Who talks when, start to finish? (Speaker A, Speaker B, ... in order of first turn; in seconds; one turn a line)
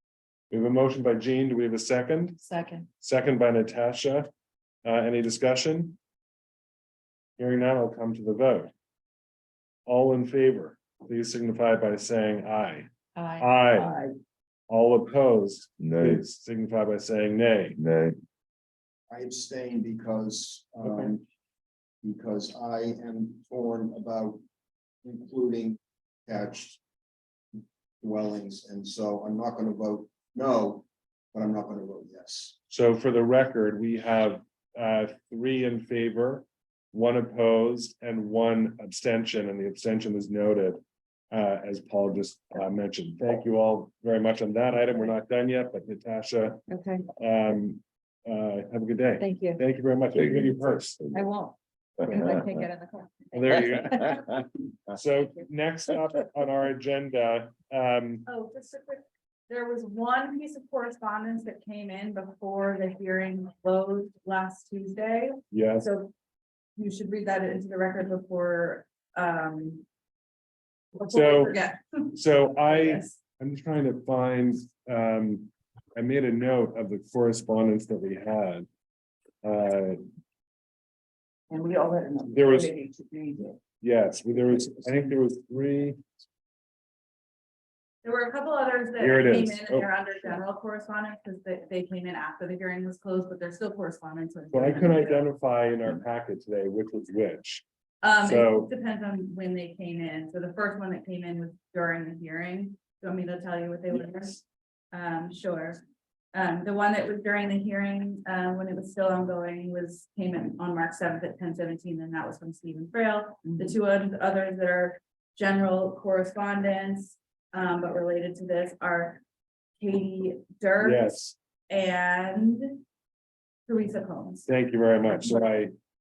Speaker A: 0.5-2.4
Speaker B: 2.4-2.9
Speaker A: 3.0-4.3
Speaker A: 4.8-6.0
Speaker A: 7.4-8.7
Speaker A: 9.9-13.9
Speaker B: 13.2-13.5
Speaker C: 13.8-14.1
Speaker A: 14.7-17.8
Speaker D: 15.8-16.2
Speaker D: 17.8-18.2
Speaker E: 19.1-21.2
Speaker A: 20.8-21.2
Speaker E: 22.0-24.4
Speaker E: 25.0-26.8
Speaker E: 28.0-32.6
Speaker A: 32.7-40.8
Speaker A: 41.3-46.6
Speaker B: 46.7-47.1
Speaker A: 47.2-51.0
Speaker B: 49.2-49.6
Speaker D: 50.1-51.3
Speaker B: 51.1-54.1
Speaker D: 52.0-52.7
Speaker A: 52.1-52.4
Speaker A: 53.3-54.2
Speaker D: 53.8-54.4
Speaker A: 54.9-58.3
Speaker F: 58.3-66.1
Speaker A: 65.5-65.9
Speaker F: 66.8-69.8
Speaker F: 70.9-73.2
Speaker A: 71.1-71.6
Speaker A: 72.2-78.7
Speaker A: 79.4-80.0
Speaker C: 81.5-83.6
Speaker A: 82.3-82.7
Speaker A: 83.8-86.0
Speaker F: 88.0-95.3
Speaker A: 89.0-89.9
Speaker A: 94.5-97.6
Speaker F: 98.0-104.4
Speaker A: 98.2-98.7
Speaker F: 104.9-105.8
Speaker F: 106.3-119.2
Speaker F: 119.8-121.2
Speaker A: 120.8-121.4
Speaker F: 121.7-122.8
Speaker F: 123.7-124.5
Speaker A: 124.5-125.7